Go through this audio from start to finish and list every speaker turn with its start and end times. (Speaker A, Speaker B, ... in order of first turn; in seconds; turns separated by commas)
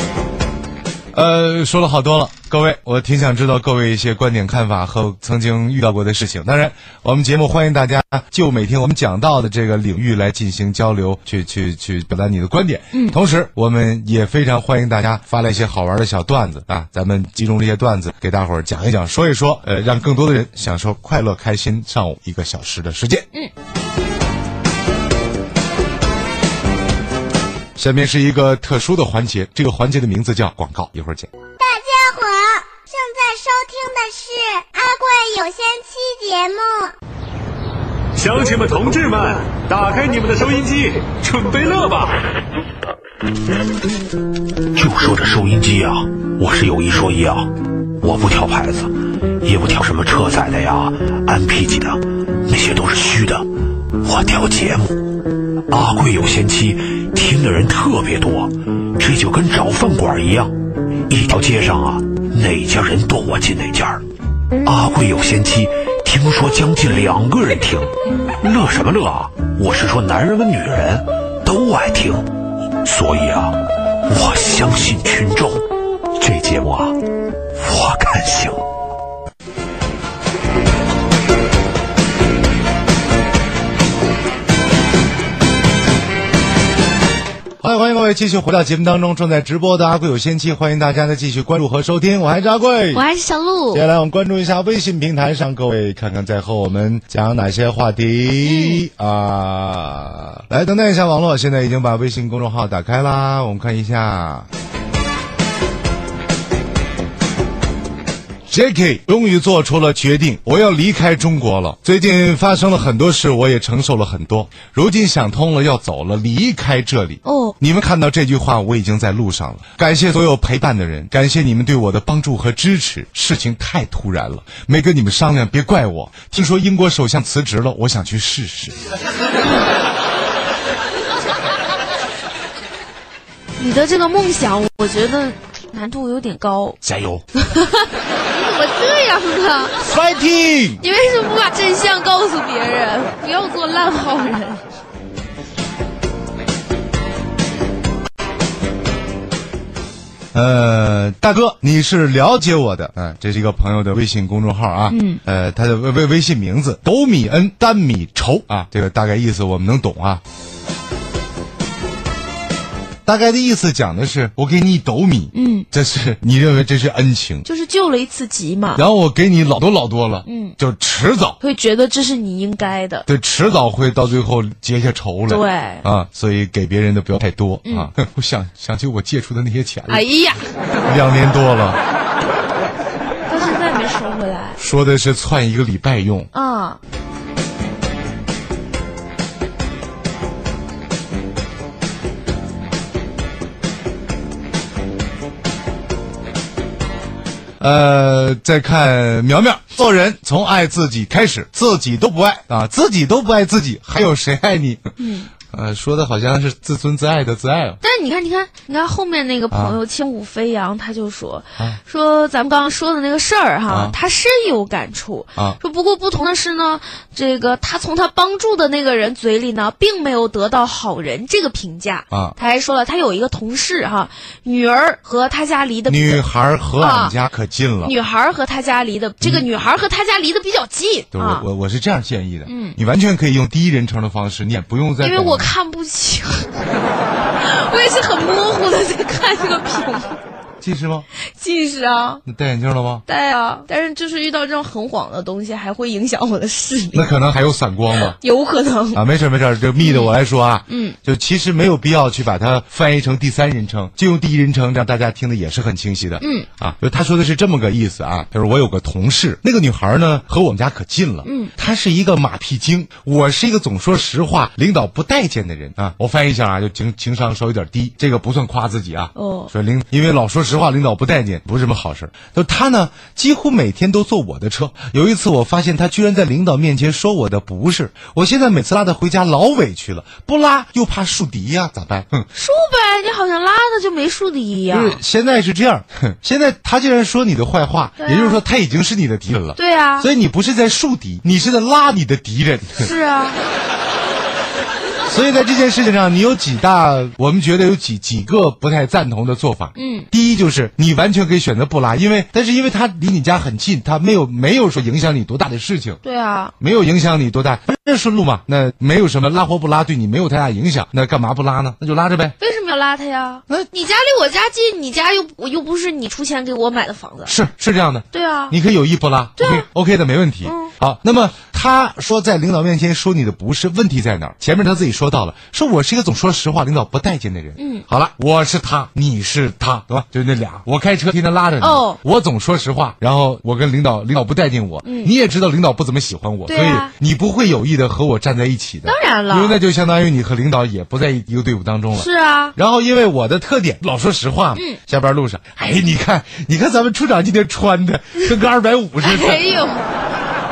Speaker A: 1.1-23.3, Speaker A: 27.8-31.3, Speaker B: 31.6-36.9, Speaker C: 38.1-42.2, Speaker D: 44.7-60.5, Speaker D: 61.1-64.0, Speaker D: 64.6-72.3, Speaker D: 72.8-78.6, Speaker A: 87.6-93.0, Speaker E: 92.9-93.8, Speaker A: 93.7-104.5, Speaker E: 98.4-98.8, Speaker A: 108.5-128.8, Speaker E: 117.2-117.5, Speaker E: 133.6-136.8, Speaker D: 136.8-137.2, Speaker E: 137.3-139.8, Speaker A: 139.8-140.8, Speaker E: 140.8-144.6, Speaker A: 150.3-160.2, Speaker E: 154.9-155.2, Speaker A: 163.1-167.4, Speaker E: 165.3-165.7, Speaker E: 167.4-168.8, Speaker A: 168.8-171.4, Speaker E: 170.2-170.6, Speaker E: 171.4-173.1, Speaker A: 173.1-180.1, Speaker E: 175.3-175.8, Speaker E: 179.9-180.5, Speaker A: 180.8-181.8, Speaker E: 183.3-184.6, Speaker A: 184.6-186.3, Speaker E: 186.3-186.8, Speaker A: 197.6-204.9, Speaker E: 205.0-205.3, Speaker A: 205.4-207.8, Speaker E: 207.8-226.2, Speaker A: 209.5-209.8, Speaker A: 213.7-213.9, Speaker A: 222.1-222.3, Speaker A: 225.9-227.9, Speaker E: 226.8-227.1, Speaker E: 227.8-231.5, Speaker A: 229.2-229.5, Speaker A: 231.1-235.5, Speaker E: 232.4-232.8, Speaker E: 235.0-236.6, Speaker E: 237.4-240.2, Speaker A: 240.6-241.1, Speaker E: 241.2-242.2, Speaker A: 242.2-243.0, Speaker E: 243.1-247.1, Speaker A: 246.9-248.2, Speaker E: 248.0-249.0, Speaker A: 248.9-282.2, Speaker E: 249.8-250.1, Speaker E: 250.7-251.0, Speaker E: 256.2-256.5, Speaker E: 261.2-261.5, Speaker E: 269.1-269.5, Speaker E: 282.3-285.0, Speaker A: 284.7-292.9, Speaker E: 288.0-288.4, Speaker E: 289.5-290.1, Speaker E: 292.8-293.4, Speaker A: 295.1-306.0, Speaker E: 299.7-300.1, Speaker E: 306.0-306.5, Speaker A: 306.6-312.3, Speaker E: 312.4-317.4, Speaker A: 317.2-349.4, Speaker E: 318.1-318.5, Speaker E: 319.4-319.7, Speaker E: 320.4-320.7, Speaker E: 327.6-327.9, Speaker E: 331.6-332.0, Speaker E: 334.8-335.1, Speaker E: 336.5-336.9, Speaker E: 338.9-339.6, Speaker E: 341.9-342.6, Speaker E: 349.0-349.9